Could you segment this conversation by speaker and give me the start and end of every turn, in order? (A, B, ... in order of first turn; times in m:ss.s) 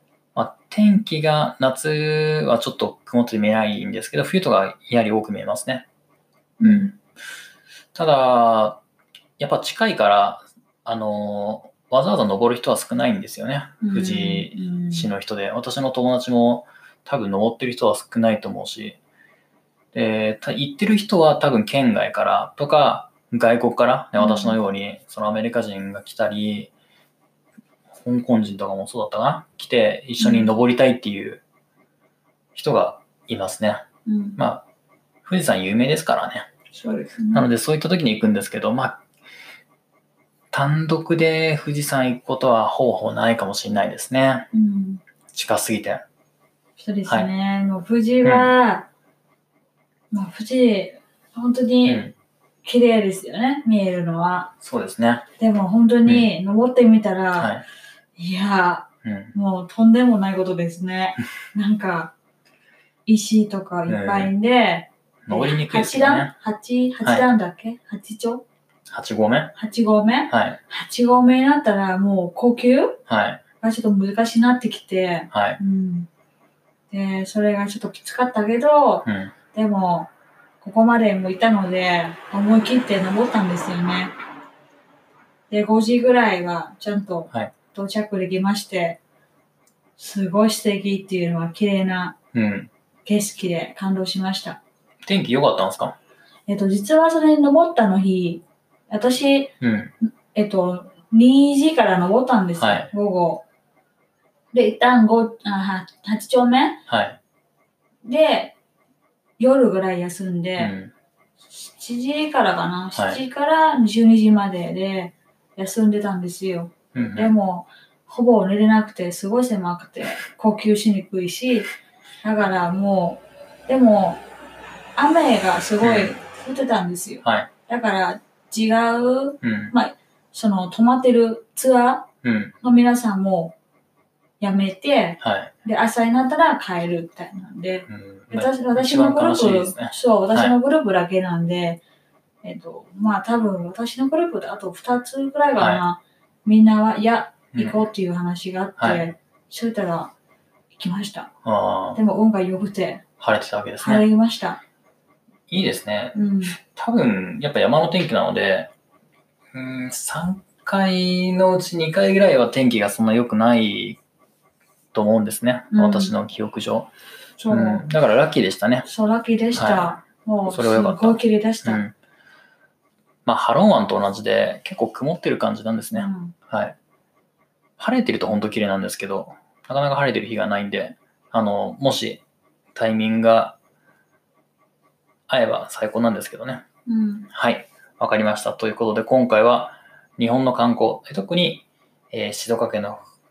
0:00.4-0:05.9 A
0:06.6-0:06.9 B
0:06.6-0:07.0 A
0:08.0-0:08.8 A
0:09.4-0:19.0 A
0:13.8-0:15.1 B
0:19.9-0:26.7 A
0:24.2-0:24.6 B
0:28.0-0:31.4 A
0:30.2-0:30.5 B
0:32.6-0:33.8 A
0:34.1-0:34.4 B
0:34.4-0:34.6 A
0:35.2-0:36.5 A
0:36.7-0:37.5 B
0:37.3-0:39.0 A
0:40.5-0:44.5 A
0:44.5-0:45.0 B
0:45.3-0:46.0 A
0:46.8-0:48.9 B
0:47.1-0:47.3 A
0:48.2-0:48.5 A
0:50.1-0:52.0 B
0:51.8-0:52.1 A
0:52.6-0:54.5 B
0:54.6-0:55.2 A
0:55.4-0:57.5 B
0:56.0-0:56.3 A
0:57.4-0:57.6 A
0:58.2-1:02.1 B
0:59.0-0:59.4 A
1:03.1-1:08.4 B
1:03.9-1:04.3 A
1:05.2-1:06.3 A
1:08.9-1:09.6 A
1:09.6-1:13.0 B
1:10.3-1:10.6 A
1:13.1-1:13.4 A
1:13.6-1:16.1 B
1:15.3-1:15.6 A
1:16.9-1:20.1 B
1:19.1-1:19.4 A
1:20.6-1:24.1 B
1:25.5-1:29.0 B
1:30.0-1:32.2 B
1:32.3-1:32.7 A
1:33.0-1:34.6 B
1:35.1-1:36.0 A
1:36.5-1:39.5 B
1:39.6-1:39.9 A
1:40.0-1:43.4 B
1:42.6-1:42.9 A
1:44.5-1:46.8 B
1:46.9-1:47.2 A
1:48.0-1:48.6 B
1:49.4-1:50.7 B
1:50.6-1:50.9 A
1:51.5-2:01.7 B
1:53.0-1:53.2 A
1:56.9-1:57.3 A
2:02.2-2:04.2 B
2:05.0-2:12.1 B
2:05.8-2:06.2 A
2:07.2-2:07.5 A
2:09.4-2:09.7 A
2:12.2-2:12.6 A
2:12.6-2:13.5 B
2:14.4-2:21.8 B
2:15.2-2:15.5 A
2:17.9-2:20.5 A
2:22.4-2:30.1 B
2:25.6-2:25.8 A
2:27.5-2:27.8 A
2:28.8-2:29.1 A
2:30.7-2:31.3 B
2:31.4-2:32.0 A
2:32.0-2:33.0 B
2:33.2-2:34.1 A
2:33.8-2:34.6 B
2:35.5-2:38.7 A
2:36.1-2:36.6 B
2:39.5-2:44.0 A
2:44.9-2:46.9 A
2:45.7-2:46.2 B
2:47.4-2:47.9 B
2:47.5-2:48.9 A
2:48.8-2:51.8 B
2:49.6-2:49.9 A
2:50.4-2:51.9 A
2:53.3-2:56.8 A
2:56.0-2:56.3 B
2:57.8-3:02.2 A
3:02.8-3:03.6 A
3:05.3-3:06.6 A
3:06.9-3:07.3 B
3:07.3-3:13.1 A